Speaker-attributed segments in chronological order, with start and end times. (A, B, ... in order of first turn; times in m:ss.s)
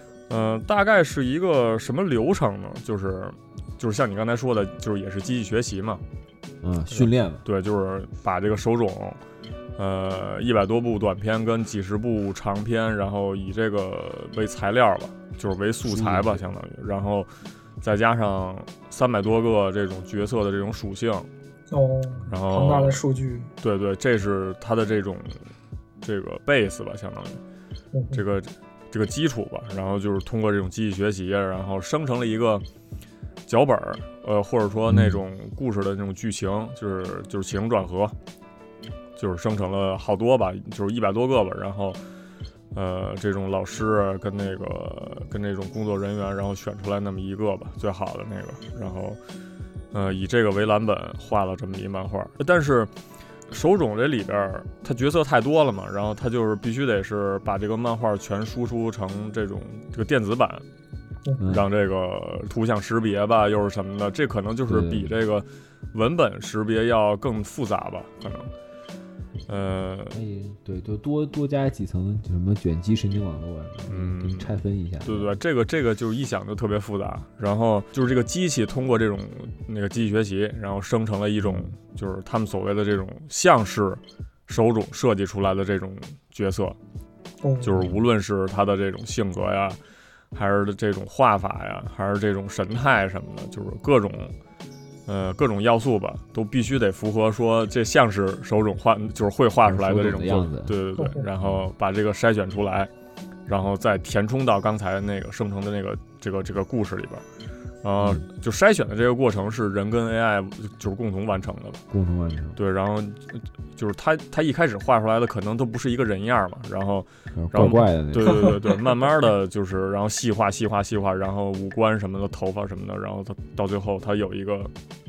0:00.3-0:06.0 A
0:06.6-0:07.4 B
0:06.9-0:09.2 A
0:09.8-0:17.3 A
0:15.8-0:16.4 B
0:17.8-0:21.3 A
0:21.7-0:23.5 C
0:22.3-0:23.0 A
0:23.6-0:25.5 A
0:26.0-0:27.4 A
0:27.9-0:28.2 C
0:28.1-0:32.6 A
0:33.4-0:38.1 A
0:34.9-0:35.2 B
0:39.2-0:42.0 A
0:42.7-0:49.2 A
0:49.9-0:52.9 A
0:53.5-1:00.6 A
1:01.4-1:01.6 B
1:01.4-1:08.5 A
1:04.7-1:05.2 B
1:09.5-1:10.2 A
1:10.1-1:15.3 B
1:13.9-1:26.8 A
1:21.4-1:21.7 B
1:27.4-1:27.8 C
1:27.6-1:29.8 A
1:30.3-1:34.3 A
1:35.0-1:42.9 A
1:39.6-1:40.8 B
1:41.0-1:41.2 C
1:41.4-1:41.7 B
1:43.5-1:47.2 A
1:47.8-1:51.8 A
1:48.0-1:48.2 B
1:51.9-1:52.6 B
1:52.6-2:04.7 A
1:57.4-1:58.6 B